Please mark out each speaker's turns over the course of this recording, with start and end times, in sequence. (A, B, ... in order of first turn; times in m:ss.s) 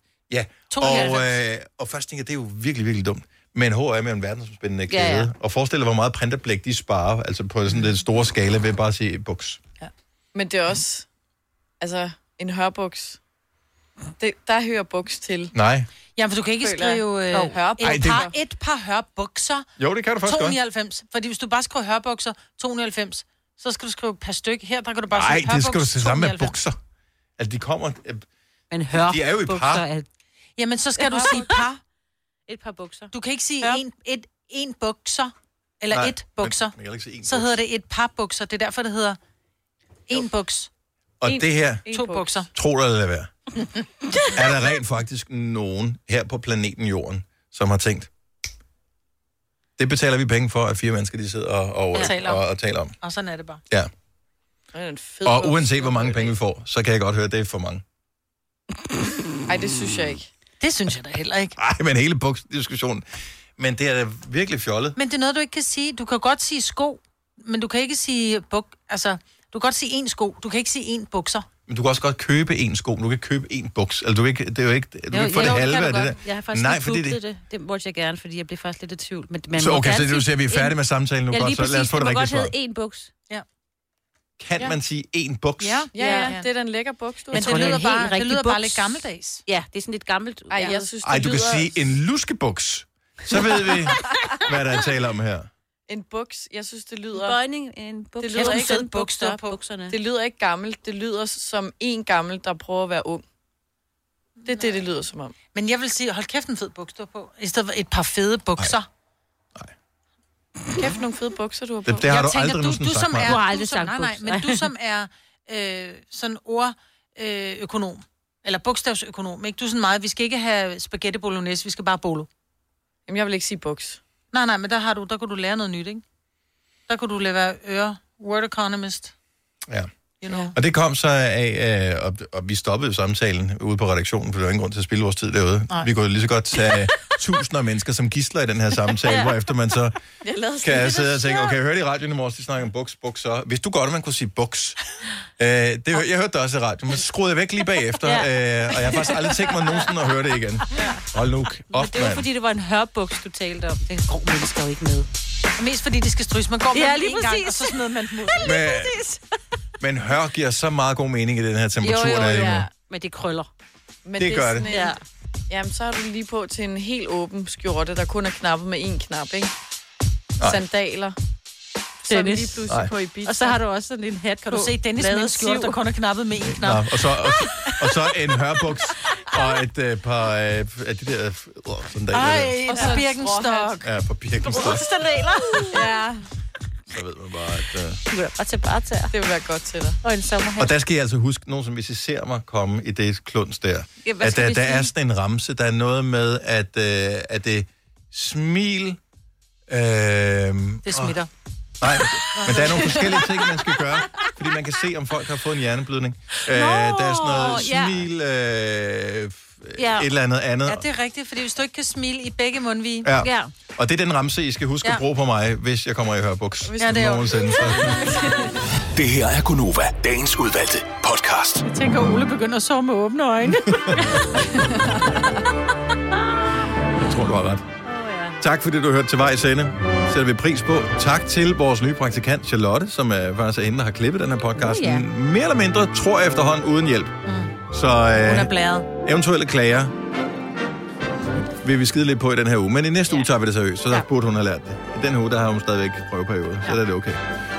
0:00.3-0:09.6 A
0:00.7-0:01.2 B
0:00.8-0:01.2 C
0:04.9-0:05.3 C
0:09.8-0:11.1 D
0:11.8-0:13.2 D
0:14.2-0:15.5 D
0:15.5-0:15.9 A
0:16.2-0:19.7 B
0:16.6-0:18.4 D
0:17.8-0:18.3 A
0:19.8-0:20.6 A
0:20.2-0:26.6 B
0:25.1-0:26.8 A
0:27.4-0:28.2 A
0:28.7-0:30.1 C
0:28.9-0:29.8 A
0:30.6-0:31.8 B
0:31.0-0:31.7 C
0:32.5-0:33.8 C
0:33.1-0:39.2 B
0:35.9-0:37.6 A
0:40.1-0:40.7 B
0:41.2-0:41.9 A
0:41.3-0:42.3 D
0:41.9-0:42.5 B
0:42.5-0:43.3 A
0:44.3-0:48.1 A
0:49.8-0:53.0 A
0:52.0-0:52.5 B
0:53.0-0:53.6 B
0:54.7-0:56.3 D
0:55.2-0:57.8 A
0:59.5-1:00.3 D
1:00.6-1:01.6 B
1:01.6-1:03.0 A
1:03.6-1:05.0 A
1:05.0-1:11.5 B
1:11.7-1:17.2 A
1:15.1-1:20.8 C
1:15.4-1:15.7 B
1:19.5-1:22.5 A
1:21.3-1:23.1 C
1:24.4-1:25.9 A
1:25.6-1:26.5 B
1:25.9-1:27.8 D
1:26.0-1:26.4 C
1:27.3-1:30.9 C
1:27.3-1:29.4 B
1:30.5-1:31.8 D
1:31.0-1:35.5 A
1:35.9-1:37.4 D
1:37.1-1:40.0 C
1:38.2-1:38.8 D
1:38.3-1:39.6 B
1:39.9-1:43.2 D
1:44.4-1:45.4 D
1:45.5-1:48.9 B
1:50.8-1:52.1 D
1:51.8-1:53.4 A
1:52.1-2:02.3 B
1:53.2-1:54.6 C
2:03.1-2:04.0 D
2:04.3-2:06.0 B
2:06.9-2:09.1 B
2:10.2-2:10.6 B
2:10.5-2:20.0 A
2:19.0-2:19.4 C
2:20.2-2:21.3 D
2:20.6-2:24.8 A
2:25.4-2:32.3 A
2:28.0-2:28.3 C
2:28.8-2:29.1 C
2:31.7-2:35.1 C
2:35.6-2:38.6 B
2:36.7-2:39.2 C
2:38.4-2:39.0 A
2:39.8-2:42.7 A
2:41.8-2:43.5 C
2:42.1-2:42.7 D
2:44.0-2:45.0 D
2:44.2-2:44.7 A
2:44.6-2:45.0 C
2:45.5-2:49.5 D
2:50.4-2:51.2 D
2:52.0-2:53.6 D
2:52.1-2:52.7 C
2:53.2-2:55.8 C
2:54.5-2:57.3 B
2:56.4-3:02.6 A
3:02.1-3:03.8 B
3:02.7-3:03.8 D
3:03.8-3:05.0 A
3:04.4-3:06.0 C
3:05.7-3:06.2 D
3:06.9-3:08.0 A
3:08.1-3:09.1 C
3:09.1-3:10.0 D
3:10.0-3:10.7 C
3:10.6-3:19.0 A
3:14.1-3:14.9 C
3:19.7-3:21.2 A
3:20.8-3:21.3 B
3:21.8-3:30.9 A
3:22.3-3:23.2 B
3:26.5-3:28.1 C
3:29.8-3:30.1 C
3:30.7-3:33.1 B
3:33.0-3:38.0 A
3:33.2-3:33.5 C
3:36.7-3:38.6 D
3:36.8-3:38.0 B
3:38.9-3:41.7 E
3:41.6-3:44.0 B
3:43.7-3:44.0 A
3:44.5-3:45.4 D
3:47.0-3:47.6 A
3:47.8-3:48.4 C
3:48.4-3:57.2 A
3:54.7-3:55.1 C
3:57.2-3:57.6 B
3:57.7-3:58.5 A
3:58.2-3:58.9 B
3:59.0-3:59.9 A
4:01.6-4:07.2 A